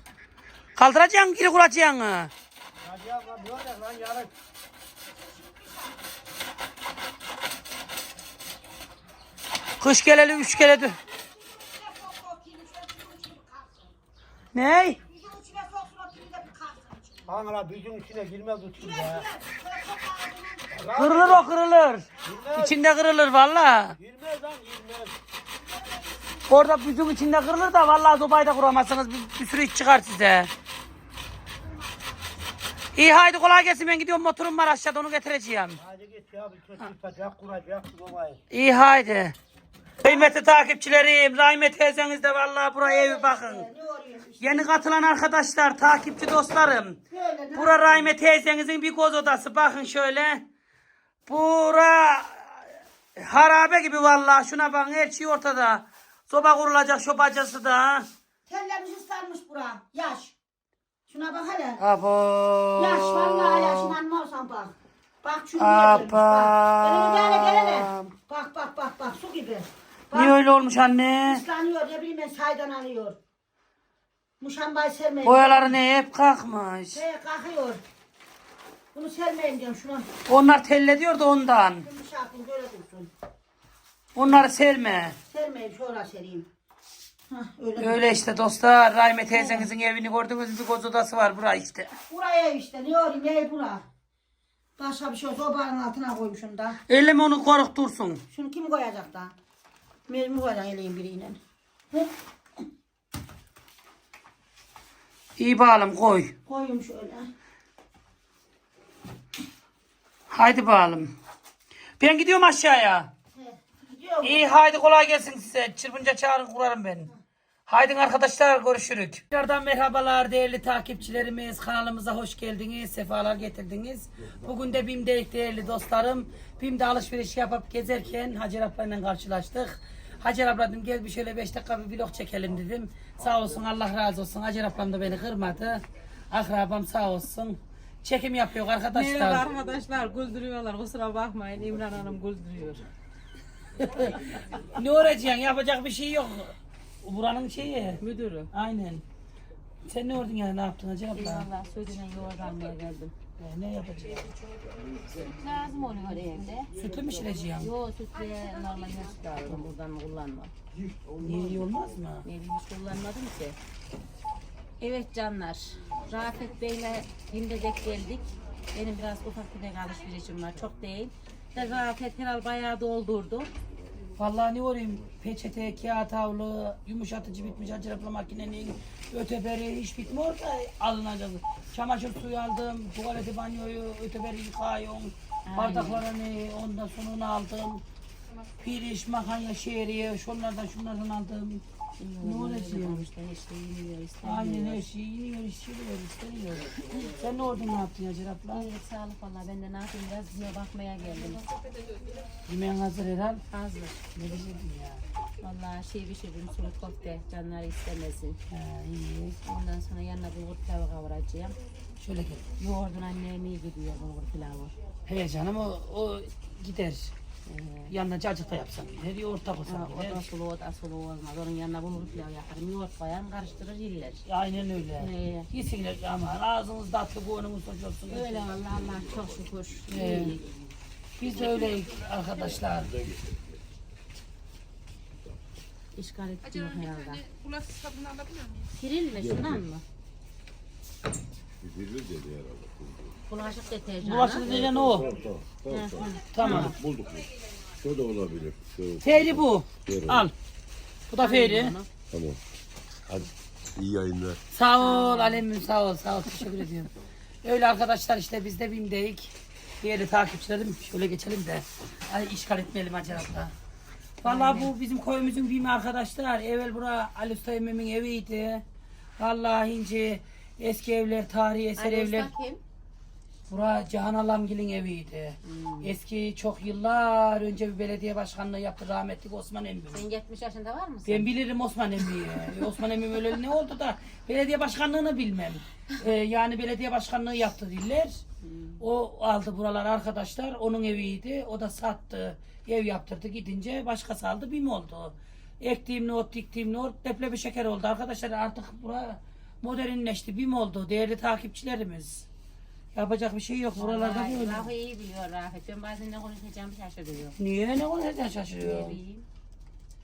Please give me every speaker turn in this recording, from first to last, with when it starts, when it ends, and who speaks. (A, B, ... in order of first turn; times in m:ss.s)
0:00.8-0:02.3 A
0:02.8-0:04.3 B
0:05.4-0:05.7 C
0:09.8-0:11.0 A
0:10.9-0:13.9 C
0:14.5-0:15.0 A
0:15.1-0:17.3 C
0:17.3-0:19.2 B
0:18.8-0:20.8 C
0:20.7-0:21.4 B
0:20.9-0:24.0 A
0:22.2-0:22.8 B
0:24.0-0:25.1 B
0:25.8-0:26.4 C
0:26.5-0:30.5 A
0:32.9-0:35.8 A
0:35.8-0:38.4 B
0:38.5-0:39.3 A
0:40.0-0:43.6 A
0:42.8-0:44.7 C
0:44.4-0:47.0 A
0:47.1-0:48.1 C
0:47.5-0:50.4 A
0:51.3-0:58.1 A
0:58.5-1:00.3 C
1:01.1-1:01.8 C
1:01.8-1:04.0 A
1:02.8-1:10.3 C
1:05.6-1:08.1 A
1:10.1-1:11.4 A
1:11.2-1:13.2 C
1:14.4-1:15.8 C
1:15.2-1:17.0 A
1:16.9-1:17.8 C
1:18.9-1:20.1 C
1:20.3-1:21.8 A
1:21.8-1:23.1 C
1:24.1-1:25.2 A
1:25.2-1:26.5 C
1:27.3-1:28.1 C
1:27.8-1:31.9 A
1:29.3-1:29.7 C
1:32.1-1:33.8 C
1:34.8-1:36.8 C
1:36.9-1:38.2 A
1:38.3-1:39.3 C
1:40.1-1:41.4 C
1:45.4-1:46.3 A
1:46.4-1:47.3 C
1:50.3-1:51.1 A
1:52.0-1:53.1 A
1:53.3-1:54.5 C
1:54.2-1:57.1 A
1:57.7-2:19.5 A
2:18.9-2:22.9 D
2:23.8-2:28.0 A
2:28.0-2:28.5 D
2:28.5-2:29.0 A
2:29.8-2:31.5 A
2:31.1-2:33.1 D
2:33.4-2:34.3 A
2:35.0-2:36.7 D
2:36.7-2:37.7 A
2:37.6-2:40.5 D
2:41.2-2:42.2 A
2:42.2-2:43.6 D
2:44.8-2:53.5 D
2:54.2-3:07.8 A
3:05.5-3:06.0 D
3:08.6-3:11.6 A
3:12.0-3:14.8 D
3:12.2-3:13.0 A
3:14.2-3:18.7 A
3:16.8-3:17.1 D
3:18.5-3:22.0 D
3:22.4-3:23.4 A
3:23.5-3:24.0 D
3:24.1-3:25.0 A
3:25.4-3:28.4 D
3:28.5-3:29.4 A
3:29.4-3:31.6 D
3:32.0-3:32.4 A
3:32.6-3:34.7 D
3:35.1-3:37.1 A
3:37.4-3:37.9 D
3:37.9-3:40.2 A
3:39.6-3:44.2 D
3:44.2-3:48.4 A
3:45.0-3:45.5 D
3:48.1-3:50.5 D
3:49.9-3:50.4 A
3:51.2-3:53.0 A
3:55.9-3:57.5 D
3:58.6-3:59.8 D
3:59.2-3:59.6 E
4:01.6-4:02.4 E
4:03.3-4:04.4 D
4:04.0-4:05.1 A
4:04.4-4:07.2 E
4:04.5-4:05.1 B
4:05.7-4:06.8 D
4:06.2-4:06.8 A
4:07.8-4:10.3 E
4:09.0-4:10.3 A
4:11.1-4:11.8 A
4:11.2-4:11.9 D
4:12.1-4:12.4 E
4:13.1-4:14.4 E
4:14.5-4:16.9 A
4:14.8-4:15.4 D
4:17.4-4:23.5 A
4:24.2-4:28.6 A
4:24.2-4:24.7 D
4:29.2-4:32.3 A
4:31.8-4:32.6 D
4:33.5-4:40.0 A
4:35.4-4:35.9 D
4:39.9-4:41.3 D
4:41.0-4:48.2 A
4:48.4-4:48.8 D
4:48.8-5:02.2 A
5:02.9-5:04.7 A
5:03.8-5:07.4 D
5:07.4-5:09.0 A
5:08.6-5:09.2 D